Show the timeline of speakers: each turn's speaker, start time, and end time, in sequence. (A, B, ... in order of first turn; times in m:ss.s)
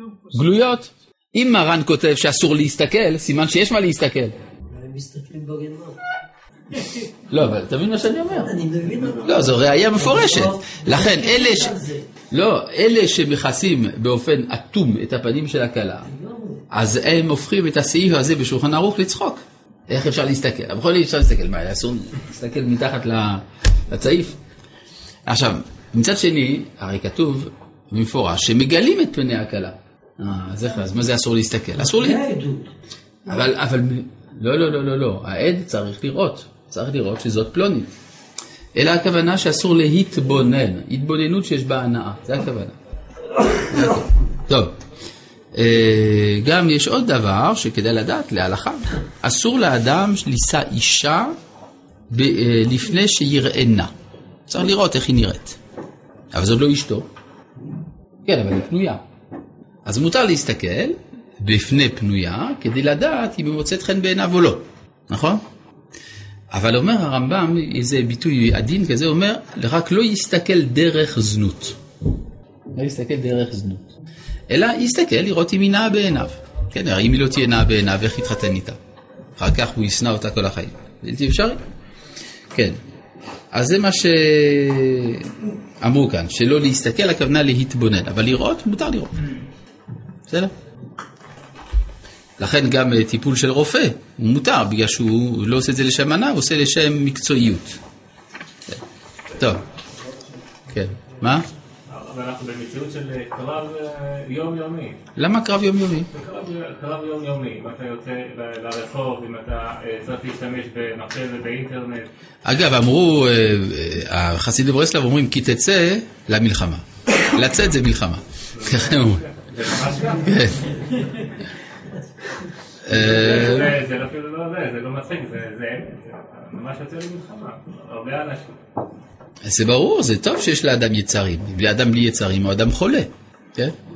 0:00.3-0:04.4 A
0:04.7-0:06.0 B
0:07.3-0:08.6 A
0:08.3-0:12.1 B
0:09.2-0:11.8 A
0:12.3-0:16.1 A
0:16.1-0:16.6 B
0:16.7-0:24.4 A
0:25.3-0:32.2 A
0:31.8-0:32.7 B
0:33.3-0:37.9 A
0:38.8-0:42.8 A
0:43.7-0:44.8 A
0:45.5-0:51.4 A
0:52.1-0:53.9 A
0:54.5-0:55.6 A
0:56.3-0:57.1 A
0:58.2-0:59.0 A
0:59.9-1:05.4 A
1:06.5-1:11.8 A
1:12.7-1:13.9 A
1:14.5-1:18.8 A
1:19.4-1:21.6 A
1:23.5-1:29.2 A
1:32.4-1:37.8 A
1:39.4-1:39.6 A
1:40.7-1:41.5 A
1:41.9-1:45.0 C
1:45.2-1:46.1 A
1:46.1-1:52.1 C
1:52.4-1:59.3 A
1:58.7-2:00.3 C
2:00.2-2:00.7 A
2:02.8-2:03.7 A
2:02.9-2:08.6 C
2:09.4-2:13.8 A